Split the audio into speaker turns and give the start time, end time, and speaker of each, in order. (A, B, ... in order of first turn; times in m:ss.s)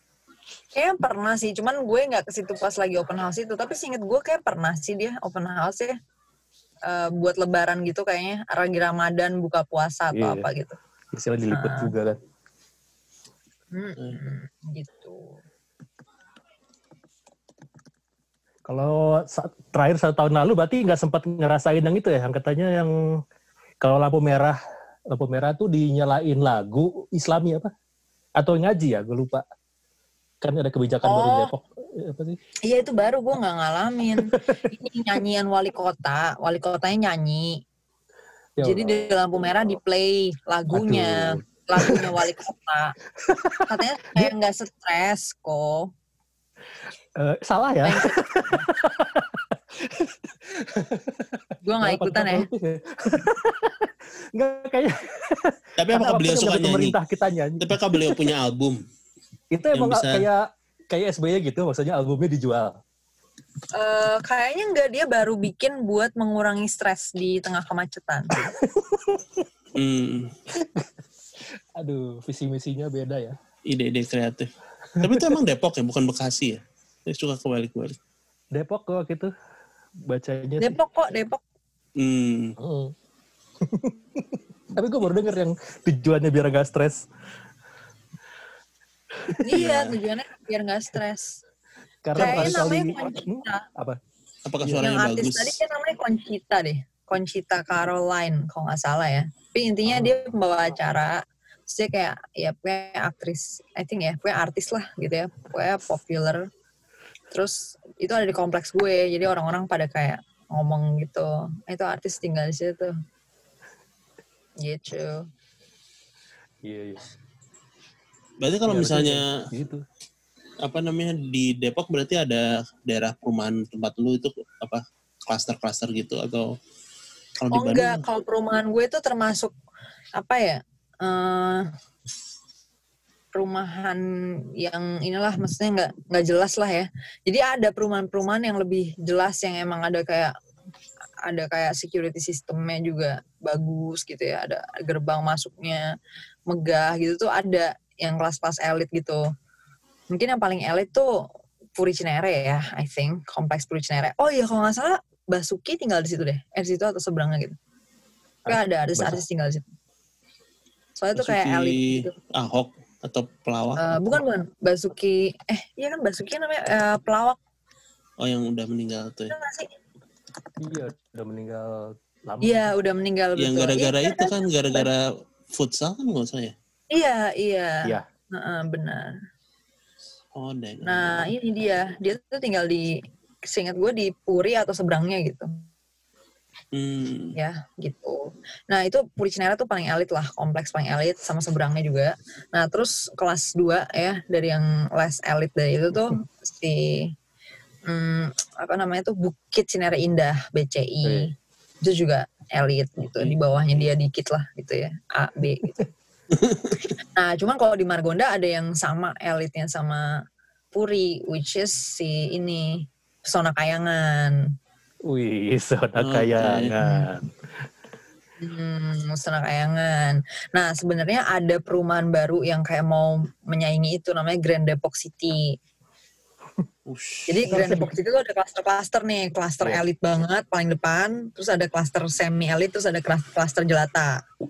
0:00.7-0:05.9 A
0:06.9-0:10.8 A
0:10.1-0:10.5 B
0:11.1-0:12.2 B
0:11.5-0:11.9 A
0:13.7-0:15.4 A
0:18.6-0:23.2 B
0:23.8-0:24.6 B
0:25.1-0:27.7 B
0:28.4-0:29.4 B
0:30.4-0:32.4 B
0:31.0-0:31.5 A
0:32.7-0:37.6 A
0:34.3-0:34.6 B
0:38.6-0:39.2 B
0:38.6-0:42.9 A
0:40.7-0:42.1 B
0:43.2-0:44.3 B
0:43.7-0:45.9 A
0:47.2-0:58.3 B
0:47.8-0:48.6 A
0:51.6-0:52.5 A
0:55.8-0:57.0 C
0:57.6-0:58.8 C
0:59.5-1:02.8 B
0:59.7-1:00.2 C
1:03.8-1:08.3 A
1:08.3-1:09.5 B
1:09.7-1:10.3 C
1:10.5-1:13.4 B
1:13.7-1:18.0 C
1:14.9-1:15.4 B
1:18.5-1:19.3 B
1:20.0-1:20.7 B
1:20.6-1:21.4 A
1:22.0-1:22.6 C
1:22.6-1:22.9 B
1:23.6-1:27.0 B
1:29.1-1:29.4 B
1:29.4-1:31.4 A
1:29.5-1:30.0 C
1:32.0-1:34.0 B
1:32.2-1:33.6 A
1:32.2-1:32.6 C
1:34.4-1:35.6 C
1:34.8-1:46.5 A
1:39.9-1:40.3 B
1:47.3-1:52.9 A
1:54.6-1:55.2 A
1:56.6-1:57.0 B
1:58.4-1:59.4 C
1:58.6-1:59.8 B
2:00.6-2:06.5 C
2:07.4-2:08.0 C
2:07.5-2:09.5 A
2:10.2-2:11.7 A
2:13.3-2:14.0 A
2:14.6-2:20.3 A
2:21.3-2:25.9 A
2:26.5-2:29.2 A
2:30.1-2:31.1 A
2:31.8-2:37.6 A
2:38.4-2:39.2 B
2:38.5-2:39.6 A
2:41.0-2:42.1 A
2:41.1-2:44.2 C
2:43.8-2:47.4 A
2:48.2-2:49.4 C
2:49.3-2:49.7 A
2:50.6-2:52.7 B
2:52.4-2:54.9 A
2:53.4-2:56.5 C
2:56.9-2:59.1 A
3:00.4-3:01.3 C
3:00.8-3:05.5 A
3:06.7-3:07.3 C
3:07.4-3:17.1 A
3:17.9-3:21.3 A
3:21.8-3:25.8 A
3:26.3-3:26.7 C
3:27.2-3:30.1 A
3:30.7-3:34.4 A
3:35.1-3:37.3 B
3:36.0-3:36.7 C
3:36.8-3:37.1 A
3:38.4-3:45.6 A
3:46.8-3:47.6 C
3:47.3-3:54.2 A
3:47.5-3:47.9 B